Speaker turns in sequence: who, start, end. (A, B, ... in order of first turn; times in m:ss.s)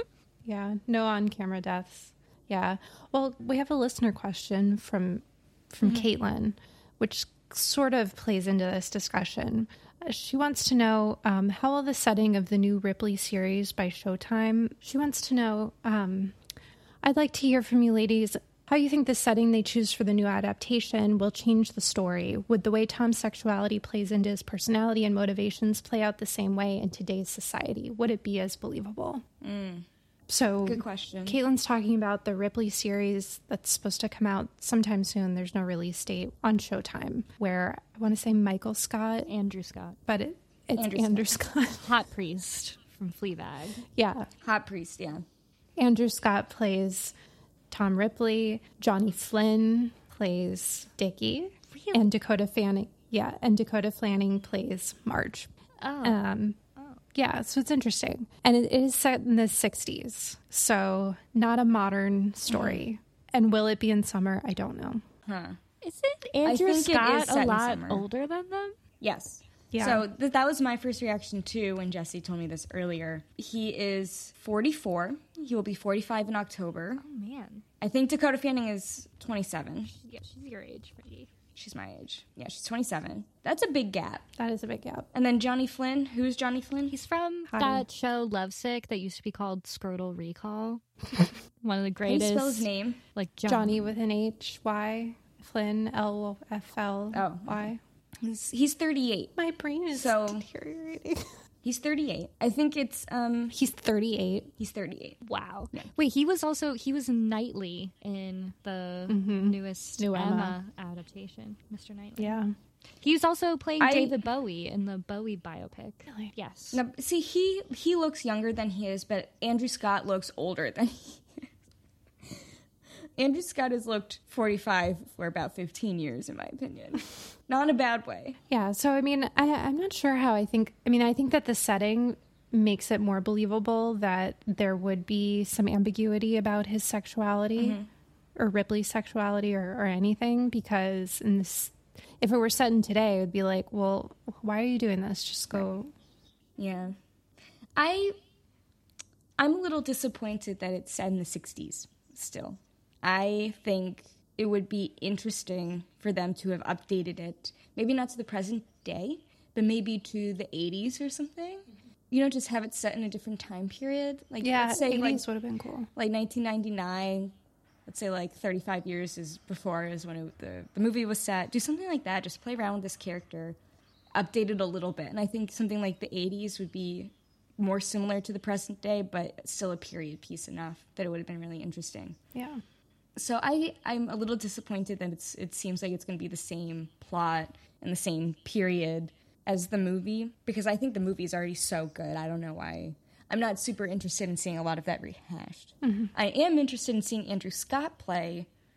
0:00.4-0:16.4 A
0:17.0-0:29.2 A
0:29.4-0:29.8 B
0:30.3-0:39.3 A
0:30.6-0:31.4 B
0:39.3-0:40.0 C
0:40.1-0:41.9 A
0:40.8-0:41.4 B
0:41.8-0:43.8 C
0:43.9-0:44.3 A
0:44.4-0:45.2 B
0:45.8-0:47.1 A
0:47.7-0:55.5 A
0:51.7-0:52.1 C
0:55.8-0:56.2 C
0:56.0-0:56.6 A
0:57.1-1:05.0 A
1:02.5-1:02.8 B
1:05.3-1:05.6 B
1:05.8-1:08.8 C
1:06.4-1:08.0 B
1:09.0-1:17.0 B
1:09.7-1:10.0 A
1:17.0-1:17.6 C
1:17.8-1:19.9 B
1:19.9-1:21.3 C
1:21.6-1:24.3 B
1:24.4-1:25.1 A
1:25.1-1:27.0 B
1:26.9-1:30.8 C
1:27.5-1:27.8 A
1:31.6-1:34.0 C
1:32.1-1:33.0 B
1:33.5-1:37.8 A
1:37.1-1:37.7 B
1:38.2-1:39.4 B
1:39.4-1:41.2 A
1:39.9-1:40.4 B
1:41.6-1:43.5 B
1:43.5-1:44.5 A
1:44.6-1:45.2 B
1:45.2-1:52.4 C
1:49.1-1:50.6 A
1:52.2-1:52.5 A
1:53.0-1:56.8 C
1:53.8-1:54.2 B
1:56.1-1:56.3 A
1:56.7-2:01.4 B
2:03.2-2:08.4 B
2:08.5-2:17.8 A
2:17.6-2:17.9 B
2:18.4-2:25.9 A
2:26.6-2:27.0 B
2:27.8-2:28.2 B
2:29.4-2:45.2 B
2:44.4-2:45.9 A
2:46.0-2:47.3 B
2:47.9-2:53.6 B
2:54.2-3:02.2 B
3:02.4-3:02.6 A
3:03.2-3:18.5 B
3:15.8-3:16.1 A